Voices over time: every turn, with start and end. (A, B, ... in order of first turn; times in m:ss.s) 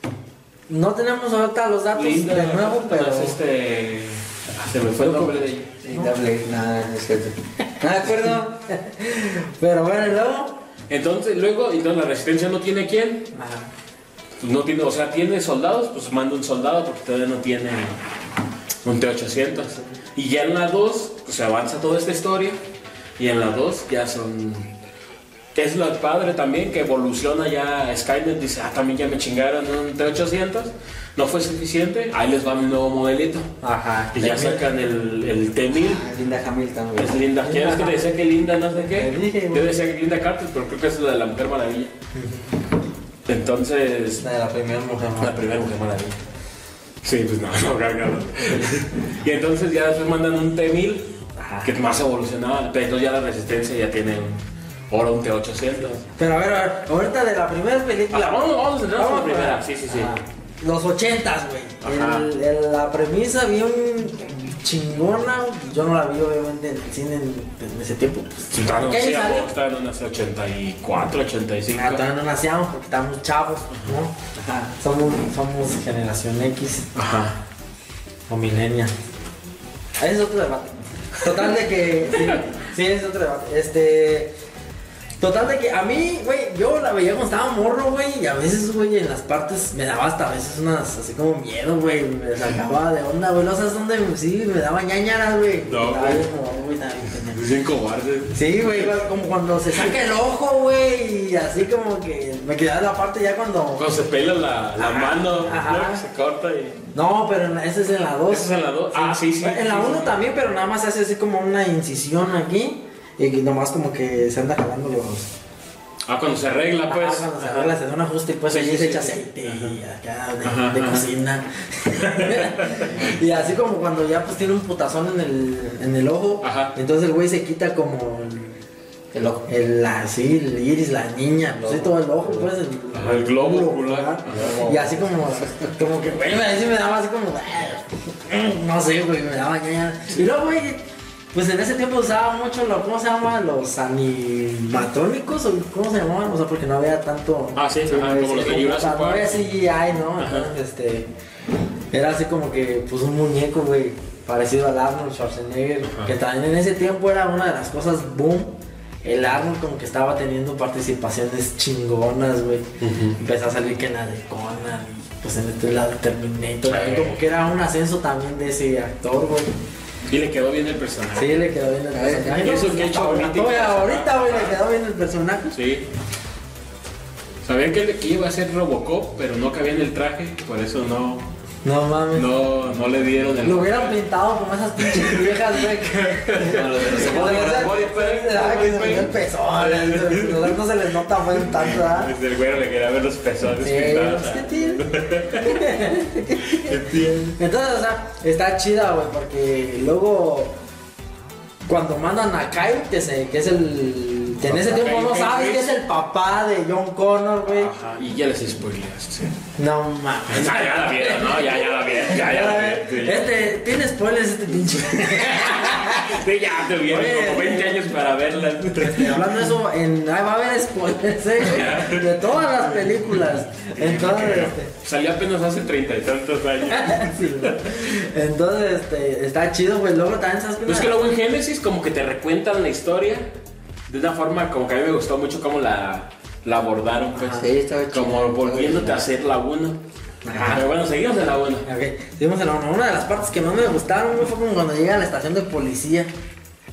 0:00.7-0:03.3 A
0:01.9-0:05.7 B
0:05.0-0:06.2 A
0:05.8-0:08.6 C
0:08.0-0:10.6 A
0:10.9-0:13.3 B
0:13.3-0:13.7 A
0:14.4-0:18.0 B
0:18.8-0:22.6 B
0:23.2-0:24.7 B
0:25.5-0:33.5 B
0:33.6-0:34.6 A
0:34.1-0:36.0 B
0:35.7-0:37.2 C
0:37.0-0:41.9 B
0:37.4-0:38.1 A
0:38.8-0:39.7 A
0:42.1-0:42.5 A
0:43.2-0:44.2 B
0:44.2-0:45.3 A
0:45.2-0:46.2 B
0:47.0-0:56.0 B
0:51.4-0:51.8 A
0:56.0-1:09.5 A
0:58.1-1:00.1 B
1:01.8-1:02.3 B
1:08.5-1:12.0 B
1:11.7-1:14.1 A
1:13.7-1:14.0 B
1:14.3-1:14.7 C
1:14.8-1:16.9 A
1:16.9-1:17.4 B
1:18.3-1:18.9 A
1:20.0-1:24.3 A
1:25.2-1:37.4 A
1:35.6-1:36.2 B
1:37.2-1:38.9 B
1:38.3-1:43.8 A
1:39.7-1:40.0 B
1:43.7-1:46.8 B
1:44.8-1:46.0 A
1:46.9-1:55.3 A
1:48.3-1:50.2 B
1:56.1-1:57.7 B
1:56.9-2:08.6 A
1:58.5-1:59.8 B
2:00.4-2:01.1 B
2:02.0-2:03.1 B
2:06.4-2:06.7 B
2:09.1-2:09.5 C
2:09.5-2:31.1 A
2:11.6-2:12.5 C
2:12.9-2:14.7 B
2:14.3-2:15.8 C
2:27.5-2:29.4 B
2:30.2-2:30.5 B
2:31.9-2:42.7 A
2:35.8-2:36.1 B
2:42.8-2:43.2 B
2:43.2-2:49.5 A
2:46.6-2:47.2 B
2:50.0-2:51.4 B
2:51.2-2:55.6 A
2:51.9-2:52.5 C
2:52.2-2:54.6 B
2:55.5-2:55.9 B
2:57.4-3:01.2 B
3:01.6-3:02.3 A
3:02.1-3:04.0 B
3:03.4-3:12.1 A
3:04.8-3:10.6 B
3:06.5-3:07.7 C
3:11.1-3:17.4 B
3:13.6-3:16.6 A
3:17.1-3:20.6 A
3:21.6-3:27.7 A
3:24.4-3:25.8 B
3:27.4-3:29.4 B
3:29.6-3:36.2 A
3:30.3-3:33.3 B
3:35.0-3:39.4 B
3:36.8-3:38.0 A
3:38.8-3:44.6 A
3:41.4-3:47.8 B
3:46.9-3:51.1 A
3:50.6-3:53.3 B
3:53.9-3:59.8 B
3:57.1-3:57.4 A
3:57.3-3:59.0 C
4:00.2-4:00.7 A
4:00.3-4:01.7 B
4:01.7-4:06.1 A